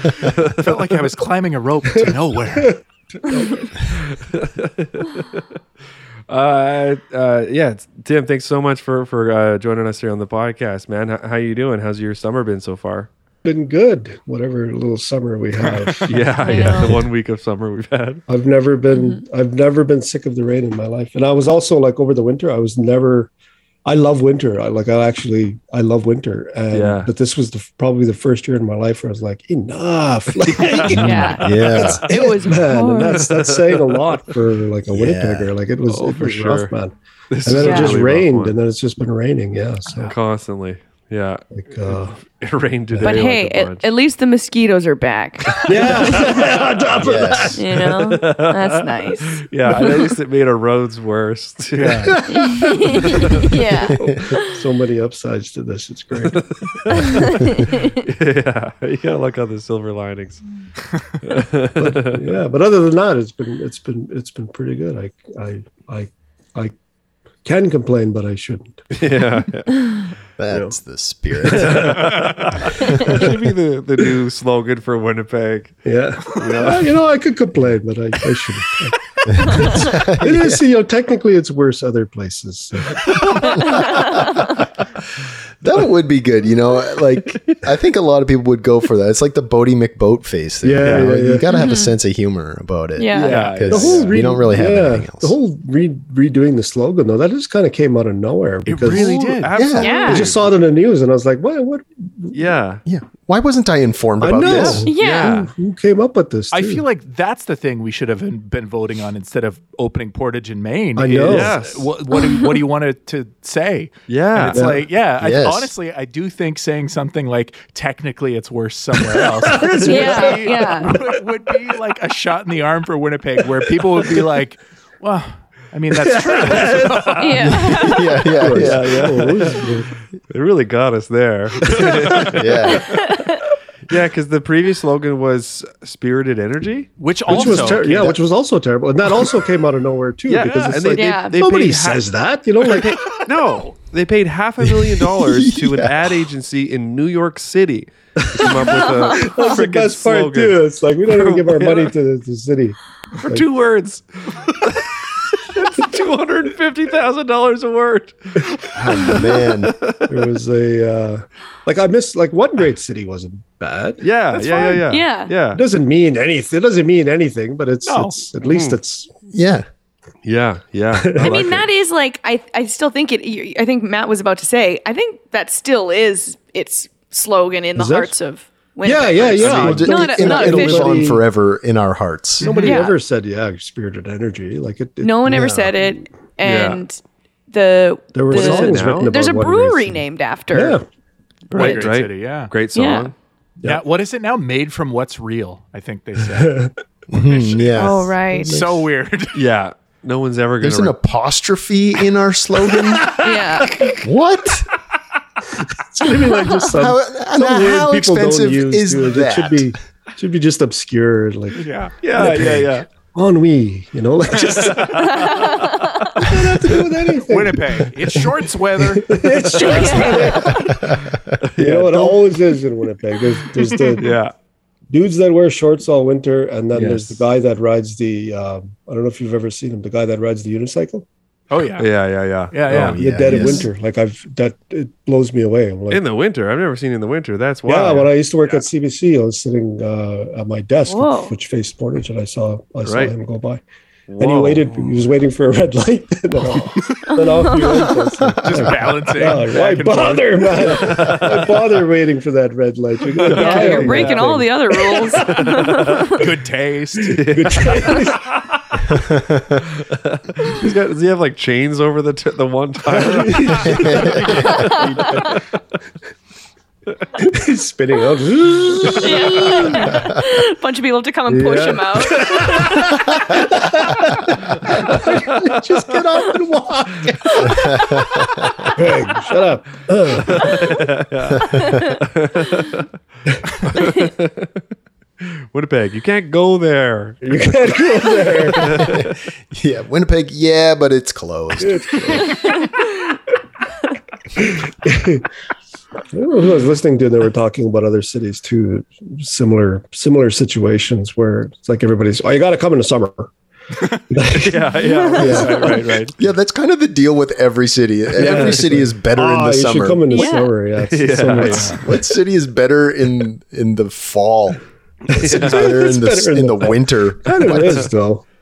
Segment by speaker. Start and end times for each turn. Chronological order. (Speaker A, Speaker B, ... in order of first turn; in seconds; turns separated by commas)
Speaker A: 0.2-1.1, Speaker B: 0.6-2.7, Speaker C: 2.1-3.8, Speaker A: 3.9-5.4, Speaker A: 6.3-13.1, Speaker C: 13.4-16.6, Speaker A: 16.1-18.2, Speaker D: 16.4-16.9, Speaker C: 18.3-23.3, Speaker C: 23.9-37.0, Speaker A: 26.7-27.1, Speaker A: 30.4-31.9, Speaker D: 31.0-33.2, Speaker E: 31.4-32.0, Speaker A: 33.1-34.1, Speaker E: 34.9-35.5, Speaker A: 35.9-36.7, Speaker A: 37.3-38.6, Speaker C: 37.5-40.1, Speaker D: 37.6-38.0, Speaker A: 39.9-43.9, Speaker C: 41.5-42.2, Speaker D: 43.0-46.2, Speaker A: 45.5-46.5, Speaker C: 45.7-47.7, Speaker E: 47.0-47.6, Speaker D: 47.6-50.0, Speaker A: 48.1-52.1, Speaker B: 51.8-52.2, Speaker C: 52.1-52.7, Speaker D: 52.3-54.4, Speaker A: 53.1-53.5, Speaker E: 53.9-54.4, Speaker C: 53.9-57.7, Speaker A: 56.2-57.3, Speaker D: 57.5-58.0, Speaker A: 58.0-60.4, Speaker B: 60.9-61.2, Speaker A: 61.2-62.2, Speaker C: 61.8-66.7, Speaker C: 67.5-68.8, Speaker A: 68.9-70.0, Speaker E: 70.4-72.0, Speaker C: 71.4-72.3, Speaker A: 71.6-75.8, Speaker E: 73.0-73.3, Speaker C: 73.0-73.5, Speaker C: 75.9-83.7, Speaker A: 76.3-77.0, Speaker E: 79.3-80.6, Speaker E: 83.4-84.5, Speaker D: 83.4-84.5, Speaker E: 85.6-95.4, Speaker A: 87.3-87.6, Speaker C: 90.6-91.5, Speaker A: 90.8-91.1, Speaker D: 91.5-91.9, Speaker D: 93.0-93.4, Speaker A: 93.2-94.1, Speaker B: 93.2-93.8, Speaker C: 93.7-102.5, Speaker B: 98.7-99.5, Speaker A: 98.9-100.5, Speaker E: 99.5-99.9, Speaker D: 99.8-100.3, Speaker A: 102.3-102.8, Speaker E: 102.9-104.9, Speaker C: 104.2-106.8, Speaker B: 104.4-104.8, Speaker D: 104.8-105.4, Speaker A: 105.0-105.5, Speaker B: 106.5-127.4, Speaker C: 111.0-111.6, Speaker A: 111.2-111.9, Speaker D: 112.2-112.5, Speaker A: 114.1-114.6, Speaker C: 114.5-114.8, Speaker E: 115.2-115.7, Speaker C: 119.0-121.7, Speaker D: 119.8-121.0, Speaker C: 123.5-124.3, Speaker C: 125.9-127.2, Speaker A: 126.5-127.0, Speaker D: 127.2-128.2, Speaker E: 127.4-128.9, Speaker C: 128.3-129.9, Speaker A: 128.6-129.7, Speaker A: 130.3-132.7, Speaker C: 131.7-132.3, Speaker E: 132.2-133.0, Speaker D: 132.9-133.4, Speaker A: 133.9-136.9, Speaker B: 137.0-138.1, Speaker C: 137.3-142.9, Speaker E: 137.3-138.2, Speaker A: 140.3-142.1, Speaker D: 140.9-141.4, Speaker A: 142.6-151.9, Speaker E: 144.6-146.2, Speaker C: 148.2-153.5, Speaker D: 148.7-149.1, Speaker A: 153.2-160.1, Speaker E: 158.7-159.8, Speaker C: 160.1-164.9, Speaker A: 164.0-165.6, Speaker D: 164.9-165.3, Speaker C: 165.5-169.1, Speaker B: 167.9-168.2, Speaker A: 168.4-168.8, Speaker E: 169.3-169.7, Speaker A: 170.2-171.7, Speaker C: 170.9-171.6, Speaker D: 171.2-181.1, Speaker C: 177.8-178.1, Speaker C: 178.8-181.2, Speaker E: 179.4-182.5, Speaker C: 182.4-185.9, Speaker B: 182.4-182.8, Speaker D: 182.6-182.9, Speaker D: 185.0-187.0, Speaker A: 186.4-186.8, Speaker D: 187.5-190.8, Speaker C: 188.1-190.8, Speaker A: 188.3-189.1, Speaker B: 191.5-192.5, Speaker A: 191.5-193.1, Speaker D: 192.8-193.1, Speaker B: 193.6-196.6, Speaker C: 196.2-196.7, Speaker E: 197.1-198.7, Speaker D: 197.8-198.5, Speaker B: 198.4-199.4, Speaker A: 199.3-201.0, Speaker E: 200.6-203.2, Speaker D: 203.2-203.8, Speaker A: 203.8-204.0, Speaker E: 204.0-204.7, Speaker C: 205.8-215.2, Speaker E: 206.7-209.8, Speaker B: 211.6-212.0, Speaker A: 212.0-212.9, Speaker A: 214.7-215.7, Speaker D: 215.1-216.1, Speaker C: 216.2-221.0, Speaker B: 217.2-220.4, Speaker A: 219.6-220.0, Speaker D: 219.6-220.7, Speaker E: 220.7-221.4, Speaker A: 221.1-222.2, Speaker C: 221.6-224.2, Speaker B: 223.6-224.0, Speaker A: 224.0-224.3, Speaker C: 224.9-231.1, Speaker A: 226.7-227.2, Speaker B: 231.5-231.9, Speaker A: 231.8-233.0, Speaker B: 232.5-233.6, Speaker E: 232.7-233.7, Speaker C: 233.0-236.0, Speaker A: 235.9-238.1, Speaker C: 237.7-243.6, Speaker D: 240.9-241.3, Speaker A: 242.8-243.1, Speaker A: 244.1-244.9, Speaker C: 244.2-255.6, Speaker D: 247.6-247.9, Speaker B: 248.4-250.6, Speaker A: 249.5-249.8, Speaker A: 250.6-251.5, Speaker A: 253.2-254.3, Speaker D: 253.3-256.2, Speaker A: 255.4-256.2, Speaker B: 256.1-257.2, Speaker A: 257.1-258.8, Speaker C: 257.3-258.4, Speaker E: 258.9-259.6, Speaker A: 259.8-265.4, Speaker C: 262.9-265.4, Speaker E: 263.7-264.3, Speaker C: 267.2-270.2, Speaker D: 269.0-272.4, Speaker C: 271.3-277.7, Speaker E: 275.3-278.7, Speaker C: 278.8-280.6, Speaker A: 280.3-282.9, Speaker A: 283.7-284.6, Speaker A: 285.2-287.2, Speaker C: 287.2-289.0, Speaker A: 288.6-289.2, Speaker E: 288.7-292.2, Speaker C: 291.6-292.7, Speaker C: 294.4-295.3, Speaker C: 296.1-303.3, Speaker C: 304.1-305.8, Speaker A: 304.3-306.2, Speaker D: 304.9-305.5, Speaker E: 306.2-310.3, Speaker C: 308.2-312.0, Speaker A: 308.2-308.6, Speaker D: 310.1-310.5, Speaker A: 310.9-311.8, Speaker B: 311.5-311.8, Speaker E: 311.8-314.6, Speaker A: 315.1-315.9, Speaker E: 315.1-317.9, Speaker C: 315.1-318.2